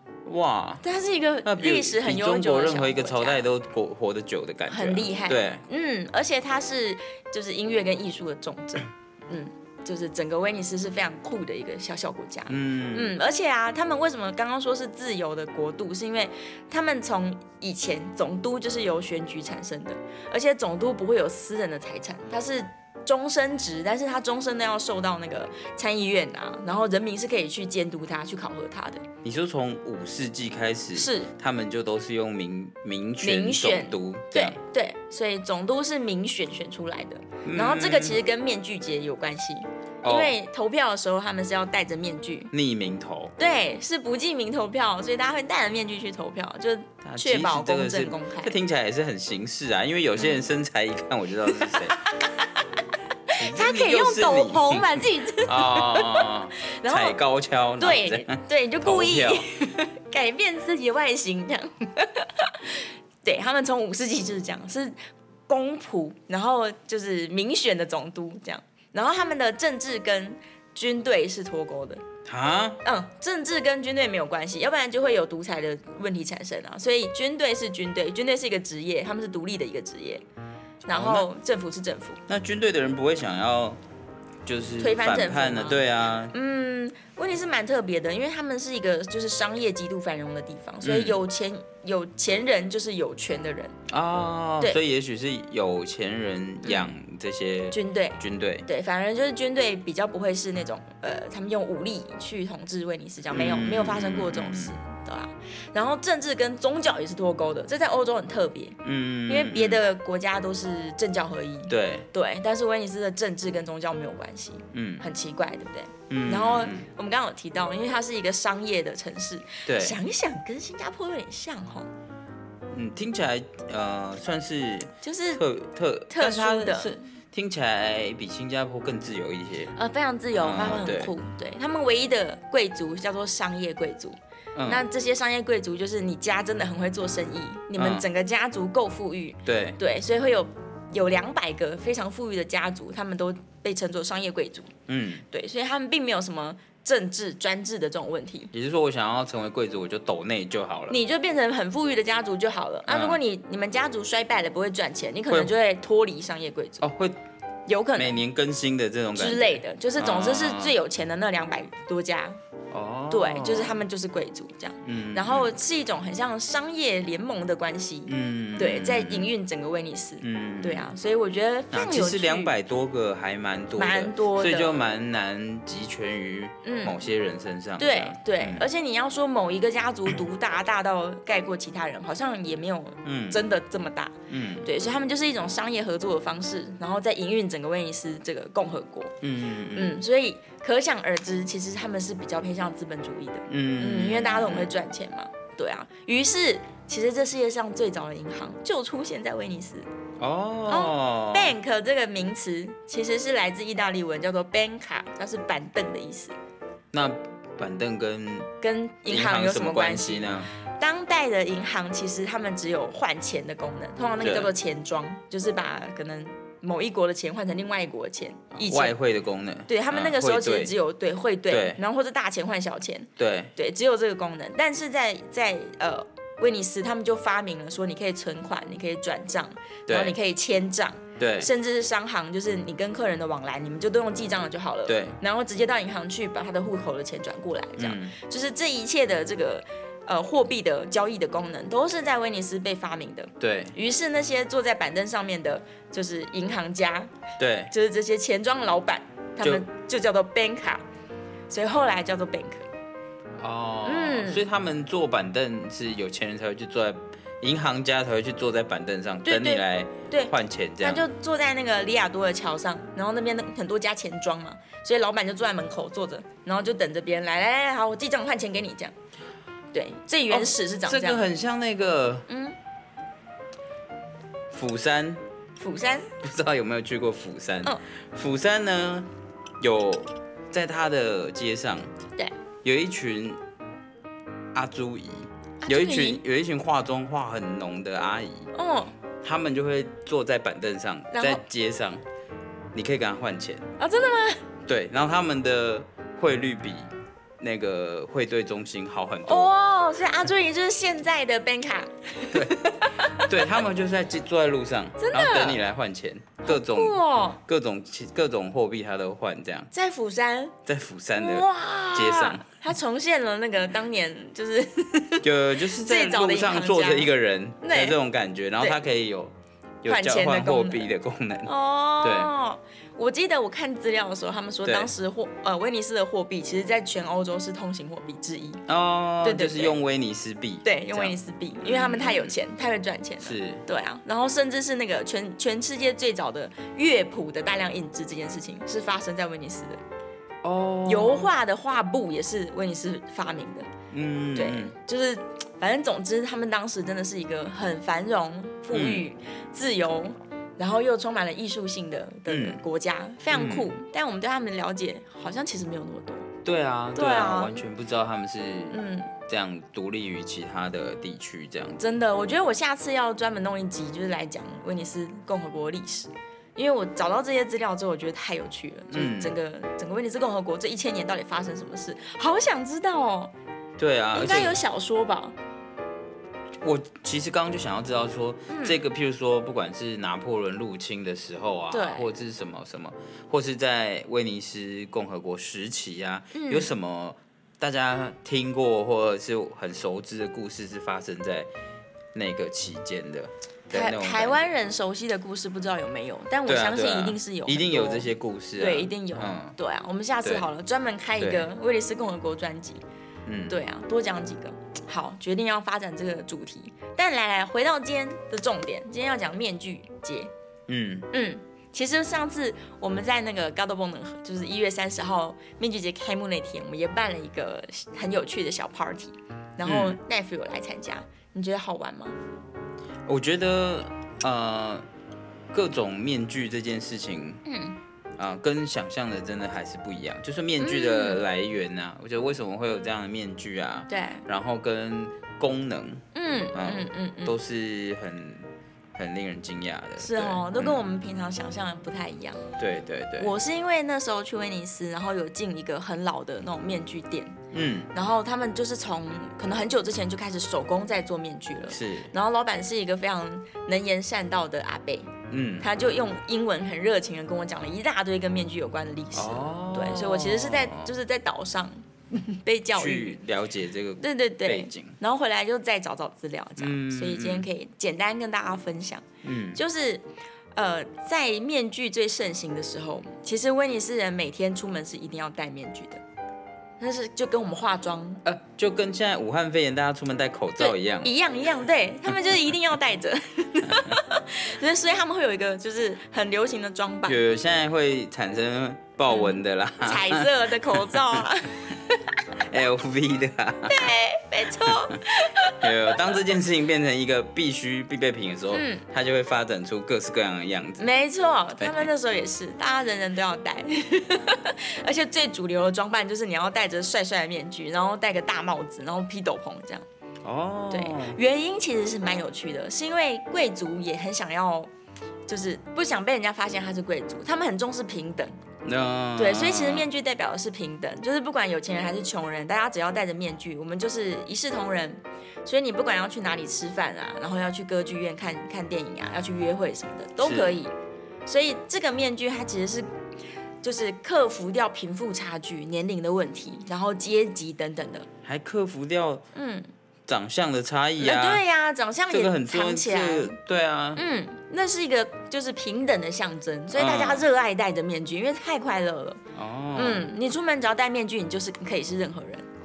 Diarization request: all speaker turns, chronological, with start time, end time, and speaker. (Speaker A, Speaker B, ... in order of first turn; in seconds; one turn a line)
Speaker A: 0.2-0.8
Speaker B: 0.8-3.5
Speaker A: 1.4-5.6
Speaker B: 4.7-29.0
Speaker A: 12.5-13.1
Speaker A: 29.2-34.6
Speaker B: 30.9-31.3
Speaker B: 33.2-42.5
Speaker A: 37.4-38.2
Speaker A: 40.0-40.3
Speaker A: 42.5-43.3
Speaker B: 43.4-48.5
Speaker A: 47.0-52.0
Speaker B: 53.3-57.2
Speaker A: 53.3-59.5
Speaker B: 57.8-65.0
Speaker B: 65.5-72.0
Speaker A: 72.2-72.8
Speaker B: 72.8-80.2
Speaker B: 80.8-82.2
Speaker A: 80.9-81.3
Speaker A: 82.3-83.8
Speaker A: 84.4-86.3
Speaker B: 84.8-93.8
Speaker A: 90.8-91.2
Speaker A: 93.9-98.7
Speaker B: 96.6-96.9
Speaker B: 97.7-121.9
Speaker A: 103.3-104.8
Speaker A: 108.8-109.8
Speaker A: 111.7-112.1
Speaker A: 114.7-115.0
Speaker A: 116.1-116.9
Speaker A: 119.7-120.0
Speaker A: 122.7-129.7
Speaker B: 125.0-125.4
Speaker B: 126.1-127.0
Speaker B: 129.8-144.7
Speaker A: 130.4-131.1
Speaker A: 134.6-134.8
Speaker A: 137.8-138.0
Speaker A: 139.4-139.8
Speaker A: 144.9-145.2
Speaker B: 145.3-148.5
Speaker A: 148.5-151.0
Speaker B: 150.9-156.9
Speaker A: 152.9-153.2
Speaker A: 156.8-157.2
Speaker B: 157.7-158.2
Speaker A: 157.9-160.8
Speaker B: 159.1-162.4
Speaker A: 162.7-163.8
Speaker B: 163.1-172.5
Speaker A: 164.8-165.6
Speaker A: 168.1-169.3
Speaker A: 170.2-170.9
Speaker A: 171.7-178.7
Speaker B: 173.8-174.8
Speaker B: 176.6-177.0
Speaker B: 177.8-189.1
Speaker A: 183.0-183.4
Speaker A: 184.3-184.7
Speaker A: 189.2-190.0
Speaker B: 189.7-199.9
Speaker A: 193.5-194.7
Speaker A: 200.2-201.5
Speaker B: 200.7-206.4
Speaker A: 206.9-208.5
Speaker B: 208.6-218.9
Speaker A: 209.1-210.5
Speaker A: 214.2-214.5
Speaker A: 218.5-220.7
Speaker B: 219.7-247.1
Speaker A: 221.5-221.8
Speaker A: 223.2-223.5
Speaker A: 229.9-230.1
Speaker A: 231.2-231.5
Speaker A: 234.9-235.2
Speaker A: 237.8-238.2
Speaker A: 243.4-243.7
Speaker A: 247.4-247.7
Speaker B: 247.7-250.8
Speaker B: 251.5-252.7
Speaker A: 253.4-261.1
Speaker B: 253.8-254.4
Speaker B: 259.2-268.9
Speaker B: 269.7-271.2
Speaker A: 270.3-272.3
Speaker B: 272.3-272.6
Speaker A: 274.5-275.2
Speaker B: 275.6-276.1
Speaker A: 276.1-281.9
Speaker A: 282.6-283.4
Speaker A: 284.5-288.5
Speaker B: 285.6-286.2
Speaker B: 288.5-288.9
Speaker A: 289.2-292.0
Speaker B: 291.1-291.4
Speaker A: 292.7-293.6
Speaker B: 293.8-294.4
Speaker A: 294.7-299.5
Speaker B: 299.2-303.5
Speaker A: 302.3-309.7
Speaker B: 305.0-305.6
Speaker B: 306.4-307.4
Speaker B: 309.7-310.6
Speaker A: 310.6-312.5
Speaker B: 311.1-318.0
Speaker A: 315.2-322.3
Speaker B: 319.9-320.9
Speaker B: 321.4-328.6
Speaker A: 324.6-324.9
Speaker A: 328.7-332.3
Speaker B: 329.2-329.8
Speaker B: 330.6-339.8
Speaker A: 333.2-333.6
Speaker A: 340.4-341.3
Speaker B: 340.9-343.7
Speaker A: 343.9-344.7
Speaker B: 344.4-356.3
Speaker A: 348.7-349.1
Speaker A: 352.3-352.6
Speaker A: 353.3-353.8
Speaker A: 356.4-361.8
Speaker B: 356.9-357.6
Speaker B: 358.7-359.1
Speaker B: 361.8-373.3
Speaker A: 368.9-369.4
Speaker A: 373.8-374.6
Speaker B: 374.1-375.4
Speaker A: 376.6-391.5
Speaker B: 378.5-378.8
Speaker B: 381.7-382.1
Speaker B: 386.3-386.7
Speaker A: 392.1-394.4
Speaker B: 393.7-402.8
Speaker A: 396.5-399.5
Speaker A: 401.2-401.5
Speaker A: 403.2-403.5
Speaker B: 403.5-410.3
Speaker A: 410.7-411.1
Speaker B: 411.1-422.1
Speaker A: 419.6-420.0
Speaker A: 423.1-424.9
Speaker A: 425.5-427.4
Speaker B: 427.4-427.8
Speaker A: 428.2-440.8
Speaker B: 430.6-431.2
Speaker B: 433.9-434.2
Speaker B: 436.1-437.4
Speaker B: 440.0-442.4
Speaker A: 442.6-443.3
Speaker B: 443.2-447.4
Speaker A: 447.5-447.9
Speaker B: 447.9-463.2
Speaker A: 451.7-452.1
Speaker A: 455.3-455.7
Speaker A: 459.1-460.9
Speaker A: 462.8-465.0
Speaker B: 464.0-476.0
Speaker A: 466.6-467.5
Speaker A: 469.2-469.6
Speaker B: 476.8-478.2
Speaker A: 478.2-481.1
Speaker B: 480.6-487.2
Speaker A: 487.1-491.2
Speaker B: 489.1-492.2
Speaker A: 492.4-493.9
Speaker B: 493.7-496.1
Speaker A: 494.7-495.0
Speaker A: 495.5-500.9
Speaker B: 498.5-498.8
Speaker B: 500.8-509.9
Speaker A: 501.6-501.9
Speaker A: 510.2-511.2
Speaker B: 510.7-514.7
Speaker B: 515.3-518.3
Speaker A: 518.6-519.9
Speaker B: 519.2-530.7
Speaker A: 530.2-530.6
Speaker B: 531.2-532.9
Speaker B: 533.6-538.1
Speaker A: 538.2-539.2
Speaker B: 539.4-539.7
Speaker A: 540.1-541.4
Speaker B: 541.0-543.4
Speaker A: 542.1-544.0
Speaker B: 544.0-549.2
Speaker A: 546.7-547.2
Speaker A: 549.3-550.0
Speaker B: 549.8-552.5